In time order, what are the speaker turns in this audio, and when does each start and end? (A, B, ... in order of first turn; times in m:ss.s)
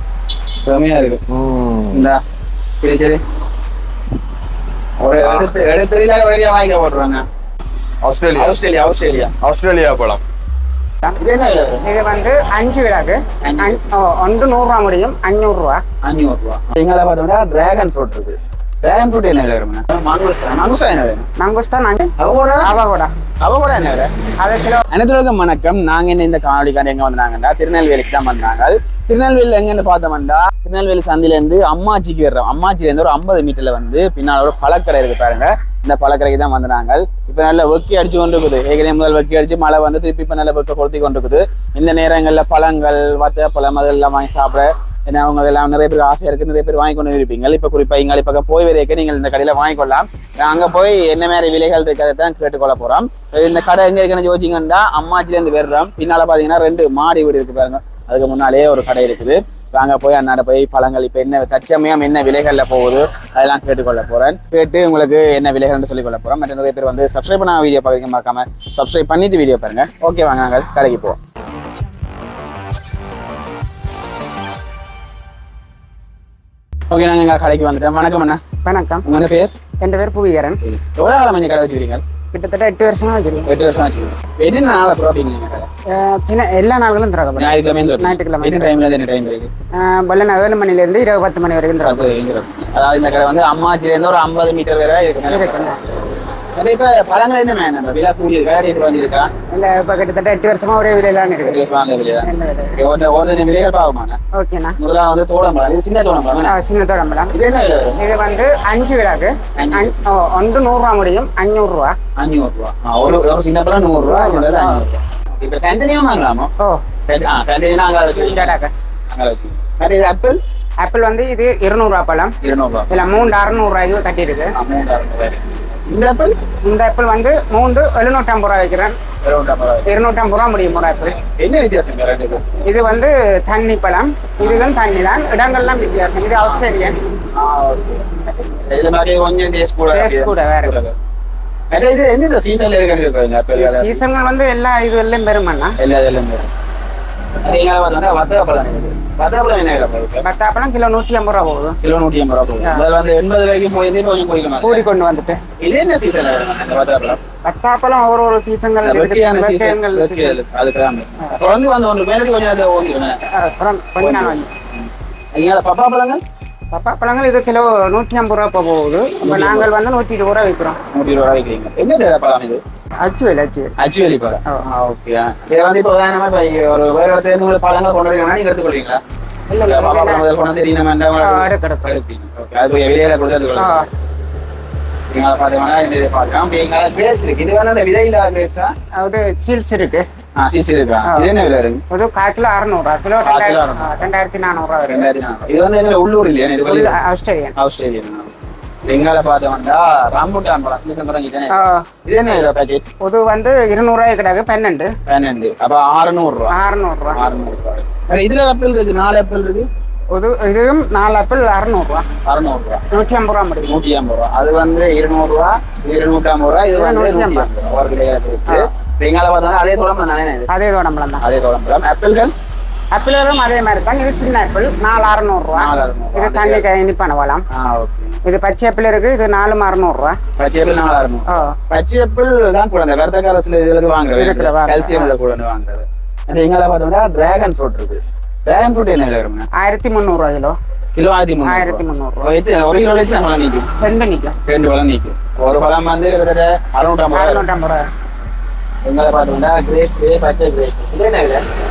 0:00.6-0:01.2 A
0:01.3-0:02.1 B
0:01.9-0:02.2 A
0:02.8-0:03.2 A
0:05.0-0:07.2 A
0:05.2-0:05.5 B
0:08.0-0:08.6 B
0:08.3-0:09.3 A
0:09.4-0:10.2 B
0:11.2-0:11.8 A
0:11.8-0:15.8 C
0:13.4-0:13.8 A
0:16.0-0:21.2 A
0:21.4-0:22.1 C
0:22.2-0:22.7 A
0:22.6-0:23.1 C
0:23.4-0:24.1 A
0:24.4-0:24.9 C
0:24.9-1:11.2 A
1:16.9-1:18.4 A
1:18.6-1:19.0 C
1:19.0-1:19.5 A
1:19.8-1:20.6 C
1:20.6-1:22.0 A
1:22.3-1:23.5 C
1:23.4-1:25.7 A
1:25.9-1:28.8 C
1:27.4-1:29.5 A
1:29.8-1:32.1 C
1:31.8-1:35.8 A
1:35.3-1:35.8 C
1:36.5-1:39.3 A
1:39.5-1:41.6 C
1:41.4-1:44.2 A
1:42.2-1:42.8 C
1:44.3-1:44.8 C
1:44.8-1:46.5 A
1:46.4-1:47.3 C
1:47.3-1:48.0 A
1:48.0-1:51.9 C
1:49.6-1:49.9 A
1:52.2-1:56.5 A
1:54.0-1:54.8 C
1:57.1-1:58.6 A
1:58.1-1:58.7 C
1:59.1-2:00.4 A
2:00.8-2:02.3 C
2:02.4-2:03.1 A
2:02.9-2:04.5 C
2:04.5-2:06.4 A
2:06.6-2:08.9 C
2:09.2-2:09.9 A
2:09.8-2:11.2 C
2:11.3-2:12.5 A
2:12.6-2:17.0 C
2:14.4-2:14.7 A
2:17.3-2:20.9 A
2:19.9-2:20.8 C
2:21.7-2:24.0 A
2:23.5-2:25.8 C
2:25.8-2:26.5 A
2:27.4-2:30.2 A
2:30.2-2:31.8 C
2:31.8-2:34.9 A
2:34.6-2:35.4 C
2:35.6-2:37.2 A
2:37.4-2:40.4 C
2:38.8-2:43.2 A
2:43.3-2:44.5 C
2:44.0-2:46.2 A
2:46.7-2:50.8 C
2:49.2-2:49.7 A
2:50.9-2:52.6 A
2:53.0-2:53.7 C
2:53.8-2:59.0 A
2:59.5-3:00.3 C
2:59.7-3:03.9 A
3:01.2-3:02.0 C
3:03.6-3:03.9 C
3:05.1-3:08.7 A
3:09.0-3:10.0 C
3:10.4-3:11.8 A
3:11.0-3:11.3 C
3:11.9-3:15.1 C
3:13.2-3:14.0 A
3:14.9-3:17.0 A
3:16.6-3:17.5 C
3:17.6-3:18.3 A
3:18.8-3:22.8 A
3:21.5-3:21.8 C
3:23.0-3:24.9 C
3:25.1-3:26.6 A
3:26.5-3:27.2 C
3:27.1-3:29.7 A
3:30.1-3:32.1 C
3:32.2-3:32.8 A
3:32.9-3:33.8 C
3:33.6-3:40.5 A
3:36.7-3:37.5 C
3:40.5-3:41.2 C
3:41.2-3:42.3 A
3:42.9-3:47.4 C
3:45.5-3:46.6 A
3:47.5-3:48.2 A
3:48.2-3:50.2 C
3:50.4-3:59.5 A
3:51.3-3:51.6 C
3:54.2-3:55.2 C
3:59.6-4:00.6 C
4:00.9-4:03.7 A
4:01.4-4:02.4 C
4:03.8-4:04.4 C
4:04.4-4:07.4 A
4:07.1-4:07.8 C
4:08.8-4:11.4 A